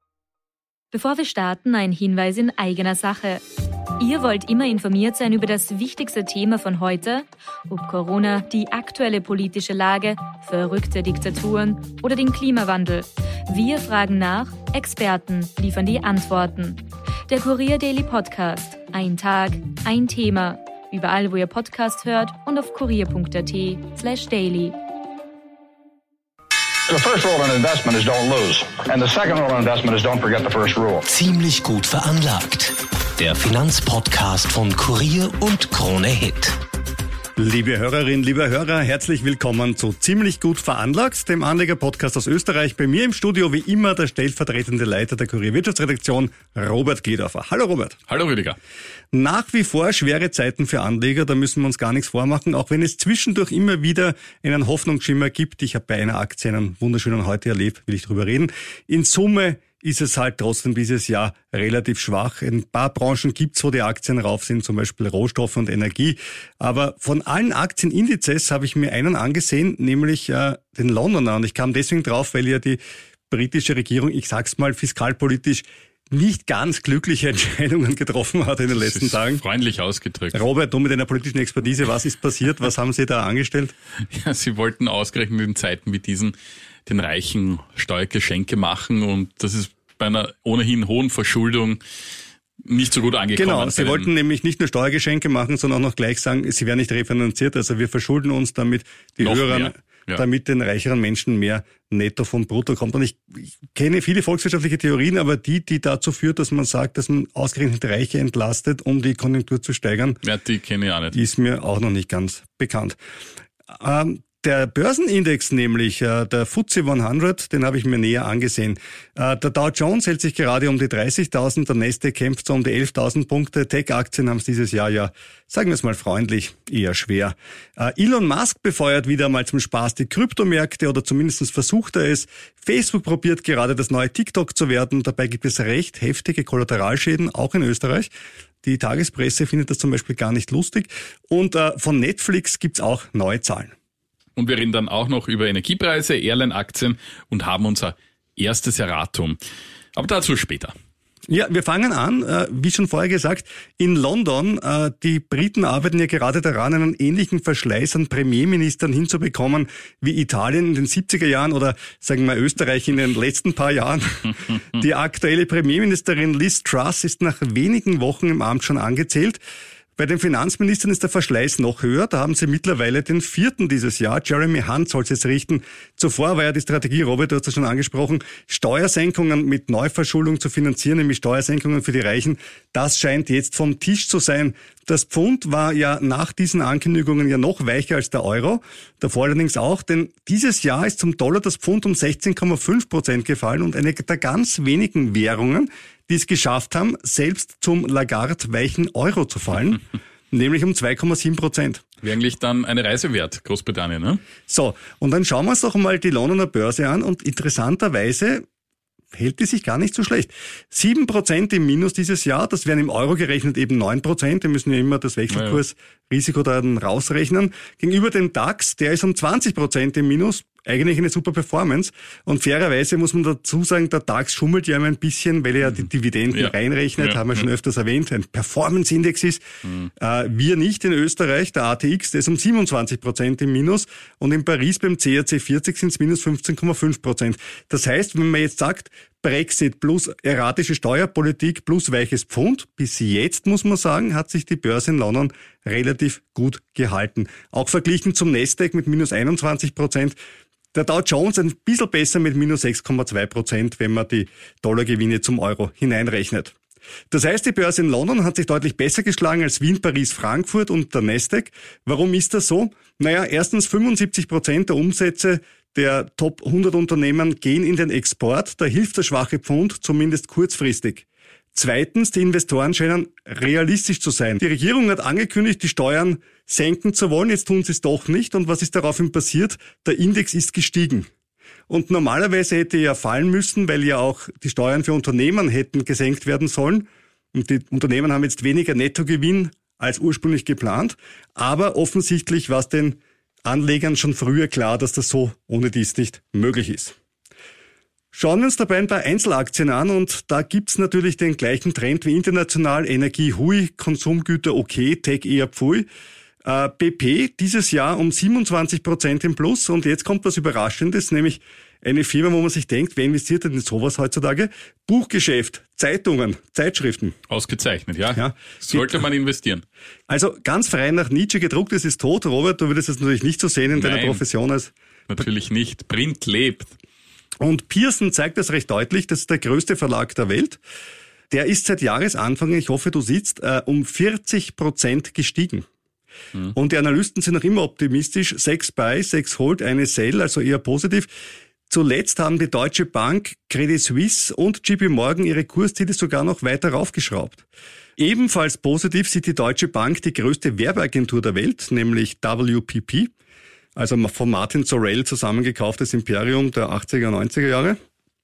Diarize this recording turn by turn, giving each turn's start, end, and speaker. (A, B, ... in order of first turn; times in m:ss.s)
0:00.9-0:03.4 A
0:04.0-0:24.8 A
0:26.9-0:31.0 B
0:31.1-0:36.6 C
0:37.4-0:48.0 D
0:48.1-0:48.6 E
0:49.1-1:12.8 D
1:13.3-1:19.4 D
1:18.7-1:20.4 E
1:20.3-1:23.7 D
1:24.1-1:26.3 E
1:26.8-1:31.8 E
1:32.6-1:34.1 E
1:33.4-1:50.2 D
1:39.2-1:40.2 E
1:50.2-1:51.2 E
1:51.1-1:53.0 D
1:53.7-2:18.1 D
2:18.6-2:23.7 D
2:24.4-2:29.4 E
2:29.9-2:30.7 E
2:31.3-2:49.4 D
2:50.0-3:21.8 D
3:22.0-3:24.2 E
3:24.5-3:28.4 D
3:29.1-3:49.4 D
3:35.3-3:35.6 E
3:46.3-3:47.4 E
3:49.6-3:49.9 E
3:50.0-4:10.2 D
4:10.7-4:16.5 D
4:17.1-4:41.1 D
4:41.7-4:57.0 D
4:58.1-5:05.9 D
5:06.4-5:17.2 D
5:17.3-5:19.6 E
5:18.1-5:19.0 D
5:20.1-5:24.7 D
5:23.7-5:24.2 E
5:25.1-5:26.7 E
5:27.4-5:30.6 D
5:31.3-5:35.6 D
5:36.5-5:41.1 D
5:41.7-5:47.4 D
5:48.0-5:53.1 D
5:53.8-5:57.8 D